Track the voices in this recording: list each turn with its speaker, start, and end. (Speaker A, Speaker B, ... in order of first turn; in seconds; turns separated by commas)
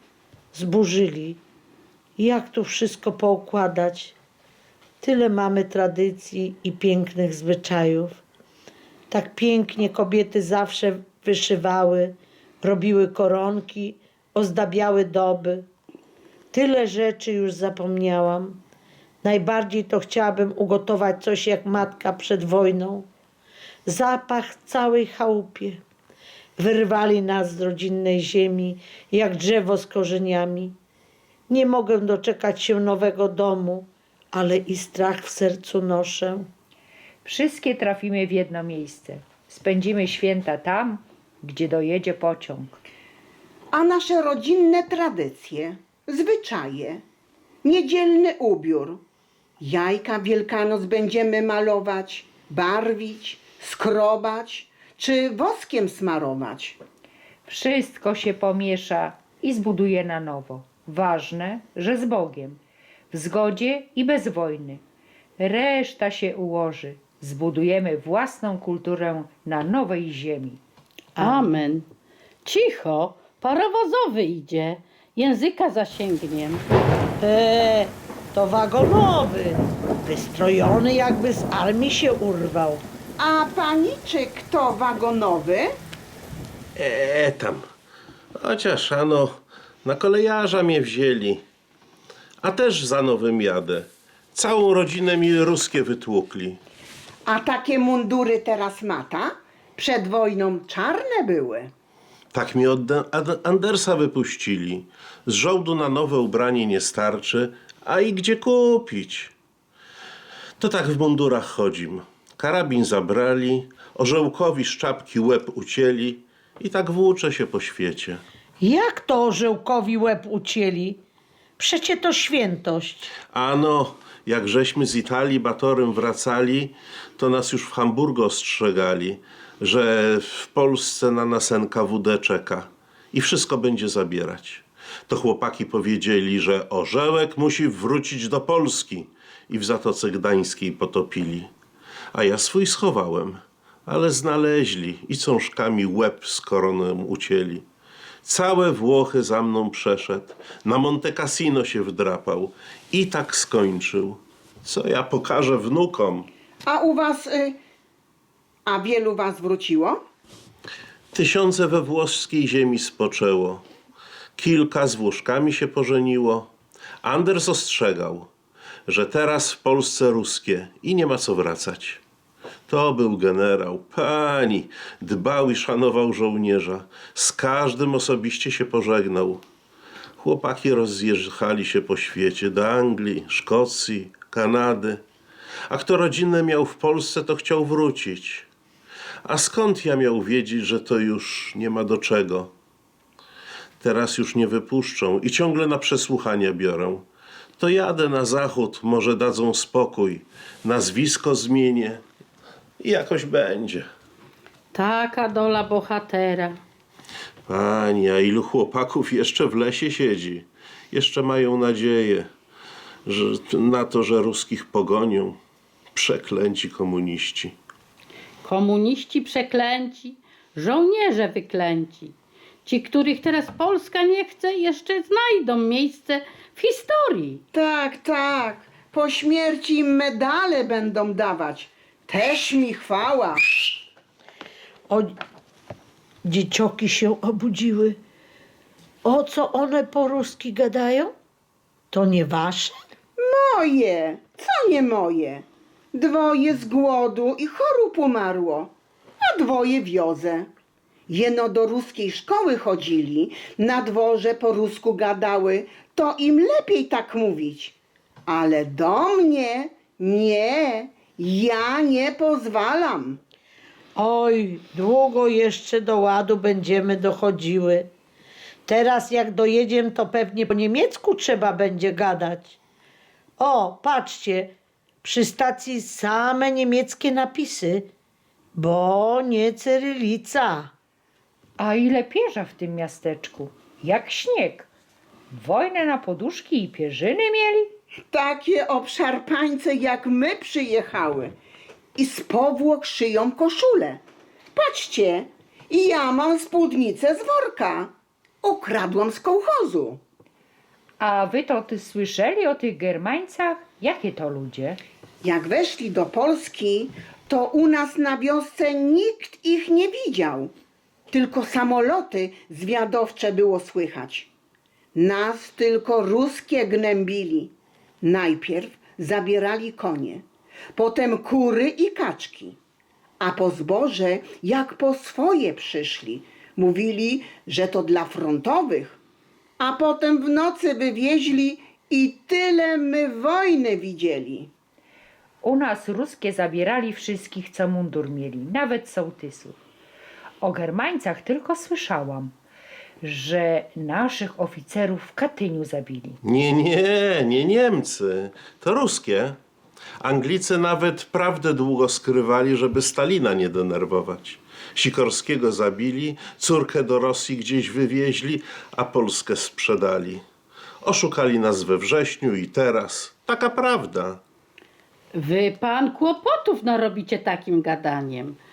Speaker A: 0.5-1.4, Speaker A: 2.2-4.2, Speaker A: 5.0-8.2, Speaker A: 9.1-15.7, Speaker A: 16.5-18.6, Speaker A: 19.2-23.1, Speaker A: 23.9-25.8, Speaker A: 26.6-30.8, Speaker A: 31.5-36.5, Speaker B: 37.2-42.8, Speaker C: 43.7-47.0, Speaker C: 47.6-49.0, Speaker C: 49.6-56.8, Speaker B: 57.5-62.6, Speaker B: 63.1-64.8, Speaker B: 65.4-70.6, Speaker A: 71.2-71.5, Speaker D: 71.2-71.9, Speaker D: 72.5-76.6, Speaker A: 77.2-82.8, Speaker C: 83.2-85.7, Speaker E: 86.8-87.6, Speaker E: 88.4-91.4, Speaker E: 92.4-96.6, Speaker C: 97.3-101.7, Speaker E: 102.3-109.3, Speaker E: 110.6-118.2, Speaker A: 118.6-121.0, Speaker A: 121.6-123.1, Speaker E: 123.3-141.5, Speaker E: 142.1-147.6, Speaker E: 148.2-156.3, Speaker C: 156.7-157.6, Speaker C: 158.7-160.0, Speaker E: 161.1-163.6, Speaker E: 164.4-166.5, Speaker E: 167.0-168.3, Speaker E: 168.9-172.0, Speaker E: 172.7-179.4, Speaker E: 180.2-185.0, Speaker E: 185.7-188.5, Speaker E: 189.2-192.5, Speaker E: 193.8-197.0, Speaker E: 197.6-202.0, Speaker E: 202.8-203.9, Speaker D: 204.7-206.6, Speaker E: 207.5-212.3, Speaker E: 213.1-215.4, Speaker E: 215.9-217.6, Speaker D: 218.4-222.1, Speaker D: 222.7-227.4, Speaker C: 227.5-233.4, Speaker A: 234.9-235.2, Speaker A: 236.2-238.0, Speaker A: 239.0-241.1, Speaker A: 241.9-242.8, Speaker C: 243.2-250.5, Speaker C: 251.1-263.2, Speaker A: 264.0-267.9, Speaker A: 268.7-272.6, Speaker A: 273.4-277.9, Speaker A: 278.6-280.7, Speaker B: 281.6-284.7, Speaker B: 285.3-287.7, Speaker C: 288.1-291.3, Speaker C: 292.0-294.0, Speaker C: 294.6-297.9, Speaker C: 298.4-300.0, Speaker B: 301.0-304.8, Speaker C: 305.2-310.5, Speaker C: 311.1-314.3, Speaker C: 314.9-320.2, Speaker C: 320.8-322.6, Speaker C: 323.2-329.0, Speaker C: 329.6-334.5, Speaker B: 335.4-339.6, Speaker B: 340.4-342.3, Speaker B: 343.0-346.2, Speaker E: 346.2-349.4, Speaker E: 350.0-360.2, Speaker E: 360.8-364.2, Speaker D: 365.1-368.4